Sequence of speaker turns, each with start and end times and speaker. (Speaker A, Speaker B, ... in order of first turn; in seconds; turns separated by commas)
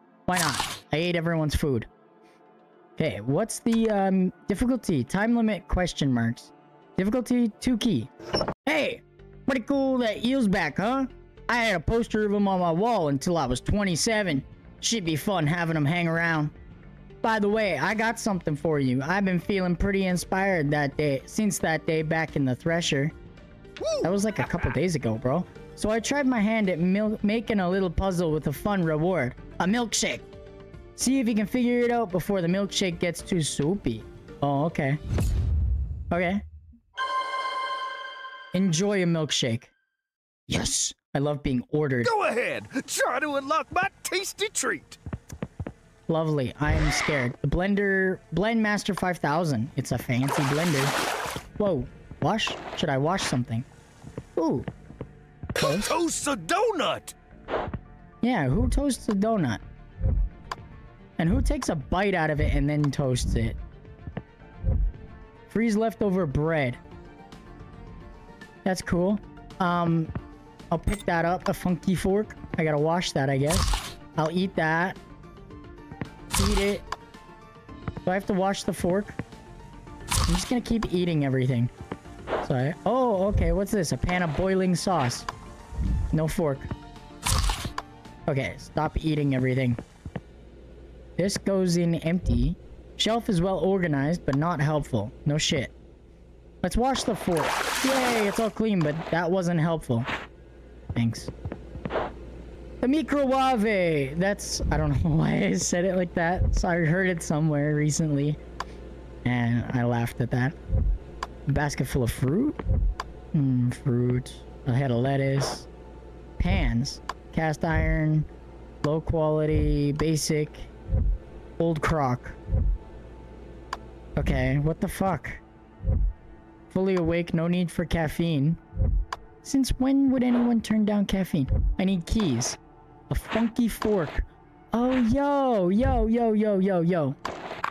Speaker A: 0.3-1.9, Speaker A: 3.0-8.1, Speaker A: 8.7-16.5, Speaker A: 17.2-23.1, Speaker B: 23.8-24.6, Speaker A: 24.0-30.3, Speaker A: 31.0-35.0, Speaker A: 36.1-36.4, Speaker A: 38.5-39.7, Speaker A: 40.5-42.1, Speaker B: 42.0-45.0, Speaker A: 46.1-51.0, Speaker A: 51.6-53.7, Speaker A: 54.4-54.7, Speaker A: 55.6-55.9, Speaker B: 55.6-57.1, Speaker A: 58.2-59.6, Speaker A: 61.2-63.6, Speaker A: 65.5-66.8, Speaker A: 68.7-70.1, Speaker A: 70.7-75.0, Speaker A: 76.4-76.9, Speaker A: 78.0-79.2, Speaker A: 80.3-81.7, Speaker A: 82.4-85.3, Speaker A: 86.1-86.7, Speaker A: 88.3-89.8, Speaker A: 91.2-95.7, Speaker A: 96.6-100.1, Speaker A: 101.0-101.3, Speaker A: 102.8-108.4, Speaker A: 109.2-110.6, Speaker A: 111.5-112.6, Speaker A: 113.3-115.7, Speaker A: 116.4-118.3, Speaker A: 118.8-120.7, Speaker A: 121.6-122.4, Speaker A: 124.2-125.4, Speaker A: 126.7-128.6, Speaker A: 129.4-132.6, Speaker A: 133.1-137.2